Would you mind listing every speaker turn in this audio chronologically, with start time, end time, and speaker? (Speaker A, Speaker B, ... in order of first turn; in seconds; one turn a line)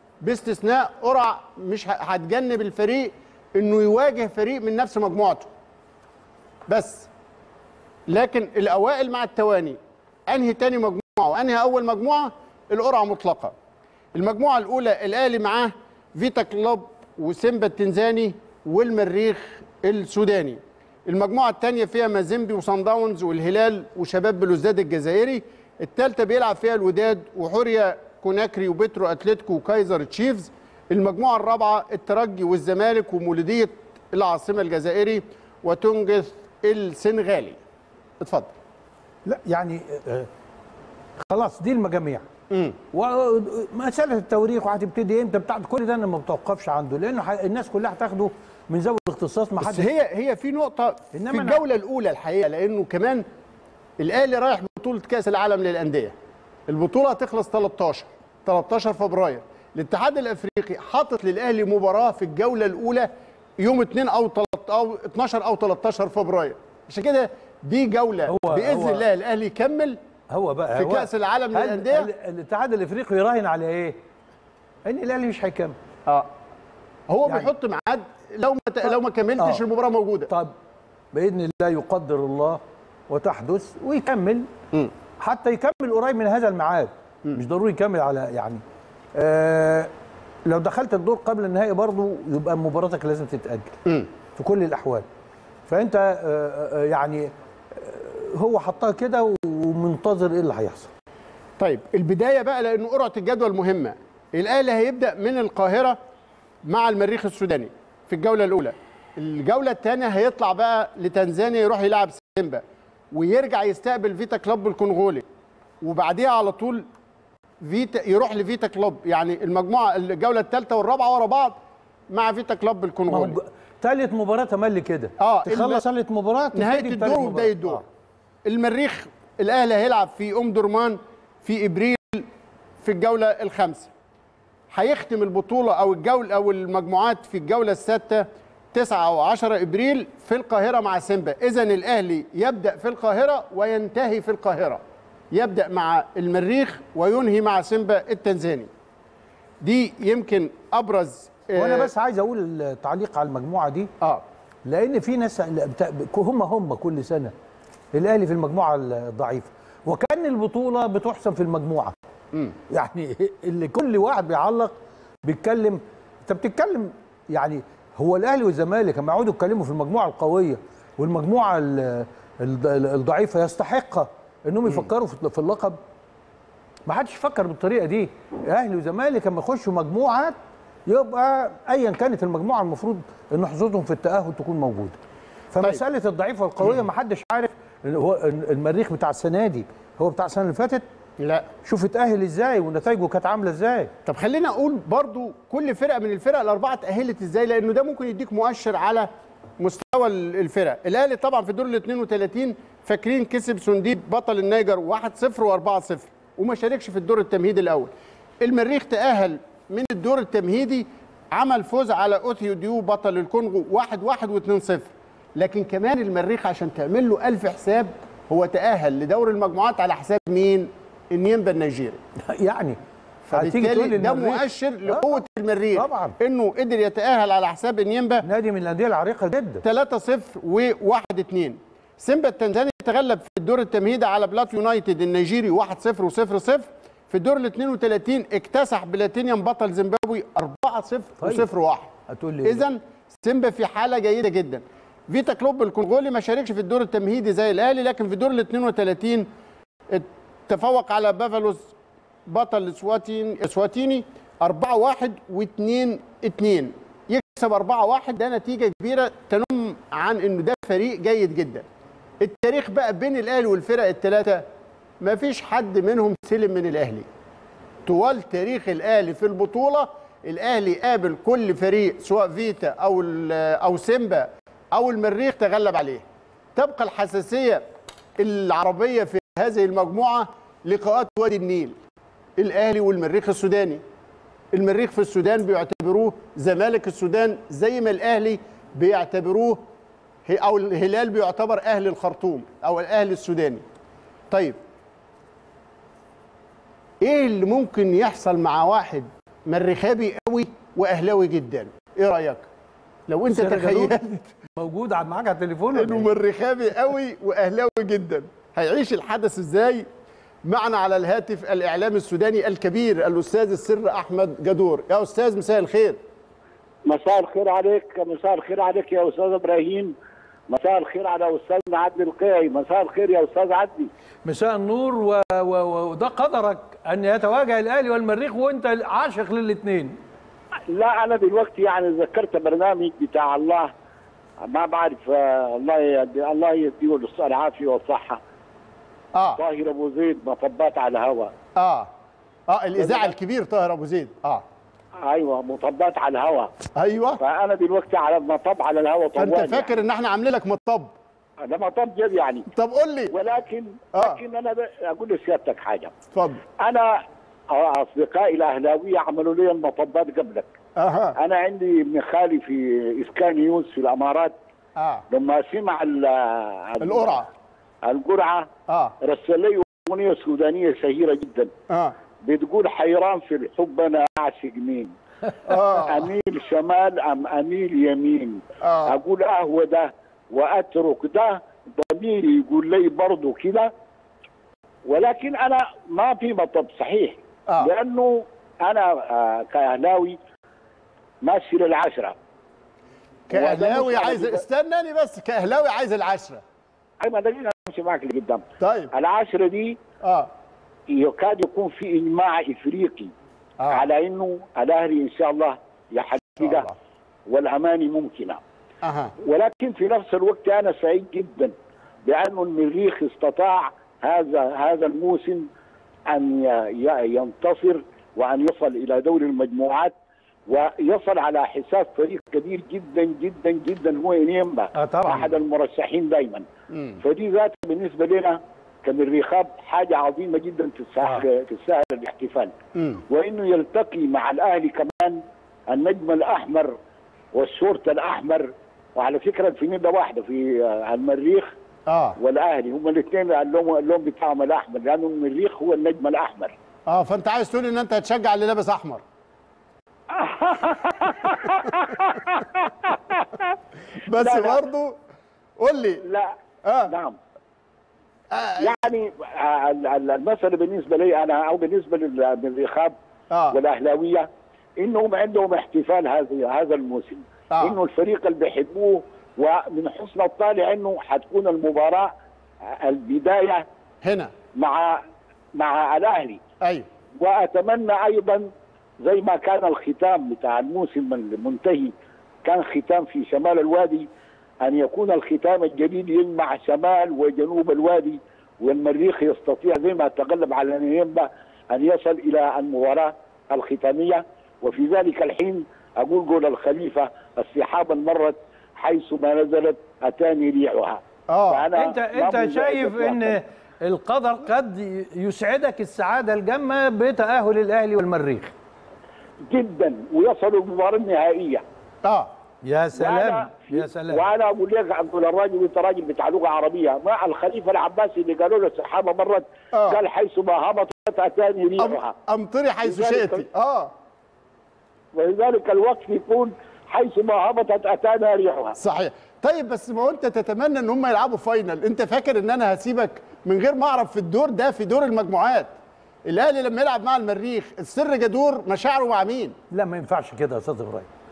Speaker A: 0.2-5.5
Speaker A: 6.7-7.1
Speaker A: 8.1-13.6
Speaker A: 14.1-37.6
Speaker A: 38.2-38.5
Speaker B: 39.3-40.3
Speaker B: 41.2-42.2
Speaker A: 42.5-42.8
Speaker B: 42.9-49.9
Speaker A: 49.6-53.2
Speaker B: 51.1-51.6
Speaker A: 54.0-56.1
Speaker A: 56.7-70.0
Speaker B: 68.3-69.0
Speaker B: 70.3-74.0
Speaker A: 70.7-72.1
Speaker B: 74.9-75.8
Speaker A: 76.1-76.3
Speaker A: 77.1-80.3
Speaker B: 78.9-79.6
Speaker B: 81.1-84.5
Speaker B: 85.2-88.6
Speaker B: 89.2-89.9
Speaker B: 90.5-93.8
Speaker B: 94.4-95.1
Speaker B: 95.7-100.9
Speaker A: 101.6-106.0
Speaker A: 106.7-115.2
Speaker A: 115.8-116.9
Speaker A: 117.6-123.4
Speaker B: 123.1-127.8
Speaker A: 125.2-125.8
Speaker A: 126.5-127.8
Speaker A: 128.4-132.3
Speaker A: 132.8-133.9
Speaker A: 134.7-144.8
Speaker A: 145.3-148.7
Speaker A: 149.6-151.9
Speaker B: 151.5-153.9
Speaker B: 154.7-157.3
Speaker B: 157.9-161.9
Speaker B: 162.7-175.8
Speaker B: 176.9-180.4
Speaker B: 180.9-185.0
Speaker B: 185.5-190.8
Speaker A: 191.2-191.5
Speaker B: 191.7-193.9
Speaker A: 194.1-222.0
Speaker B: 222.2-222.8
Speaker A: 223.3-228.2
Speaker B: 223.3-225.2
Speaker B: 225.8-226.2
Speaker B: 228.2-229.6
Speaker A: 229.6-241.9
Speaker B: 241.2-241.5
Speaker B: 242.1-242.7
Speaker A: 242.4-249.3
Speaker A: 249.9-251.7
Speaker A: 252.3-261.7
Speaker A: 262.2-264.5
Speaker A: 265.0-267.1
Speaker A: 267.9-277.6
Speaker A: 278.2-281.8
Speaker A: 282.4-283.8
Speaker A: 284.5-289.6
Speaker A: 290.3-293.6
Speaker A: 294.3-294.6
Speaker A: 297.0-302.5
Speaker A: 303.1-304.0
Speaker B: 303.3-306.1
Speaker A: 305.7-309.9
Speaker A: 310.4-316.0
Speaker C: 316.9-319.9
Speaker C: 320.5-323.9
Speaker B: 324.3-330.0
Speaker C: 330.7-333.7
Speaker C: 334.4-338.2
Speaker A: 339.1-339.4
Speaker C: 339.4-341.3
Speaker A: 341.6-341.9
Speaker A: 342.5-344.4
Speaker C: 342.8-343.1
Speaker C: 345.0-346.5
Speaker A: 346.8-347.2
Speaker C: 347.2-349.8
Speaker A: 349.2-350.9
Speaker C: 351.4-352.5
Speaker A: 352.5-353.1
Speaker C: 353.1-355.9
Speaker A: 356.1-356.4
Speaker C: 356.6-360.5
Speaker A: 360.8-361.2
Speaker C: 361.2-364.4
Speaker A: 364.8-365.0
Speaker C: 365.1-367.2
Speaker A: 366.8-367.3
Speaker C: 367.9-368.5
Speaker A: 368.7-368.9
Speaker C: 369.0-371.5
Speaker A: 371.7-371.9
Speaker C: 372.2-374.9
Speaker A: 375.5-376.1
Speaker C: 375.8-383.7
Speaker A: 378.6-379.0
Speaker C: 384.9-390.2
Speaker C: 391.2-392.2
Speaker A: 393.3-396.4
Speaker C: 393.3-394.4
Speaker C: 397.0-399.8
Speaker A: 398.6-398.9
Speaker A: 400.0-400.3
Speaker C: 400.9-403.1
Speaker A: 403.6-403.9
Speaker C: 403.7-406.7
Speaker A: 406.4-406.8
Speaker C: 407.3-408.4
Speaker A: 408.8-409.1
Speaker C: 409.2-411.6
Speaker C: 412.1-415.5
Speaker C: 416.1-419.9
Speaker C: 420.5-426.4
Speaker B: 424.8-425.3
Speaker A: 426.7-427.0
Speaker C: 427.0-432.5
Speaker A: 432.8-433.0
Speaker C: 433.1-436.8
Speaker C: 437.3-441.5
Speaker A: 441.9-442.2
Speaker C: 442.2-446.5
Speaker A: 446.9-449.0
Speaker C: 450.1-453.6
Speaker A: 454.1-455.0
Speaker C: 454.1-454.6
Speaker A: 455.6-456.0
Speaker C: 456.0-456.3
Speaker A: 456.6-456.9
Speaker C: 456.9-457.2
Speaker A: 458.3-458.9
Speaker C: 458.6-462.9
Speaker A: 463.3-463.6
Speaker C: 463.5-464.3
Speaker C: 464.8-472.1
Speaker C: 472.7-473.7
Speaker A: 474.0-474.3
Speaker C: 474.6-475.0
Speaker C: 475.6-476.4
Speaker A: 476.6-476.9
Speaker C: 477.2-478.5
Speaker C: 479.0-481.9
Speaker C: 482.4-484.1
Speaker C: 484.6-503.4
Speaker A: 501.3-501.7
Speaker B: 501.8-508.5
Speaker C: 509.5-511.6
Speaker A: 512.0-512.3
Speaker B: 512.6-514.2
Speaker C: 513.0-522.1
Speaker A: 519.7-520.0
Speaker A: 521.8-523.9
Speaker C: 522.9-523.4
Speaker C: 525.1-528.8
Speaker A: 528.8-535.7
Speaker A: 536.3-539.5
Speaker B: 539.7-541.1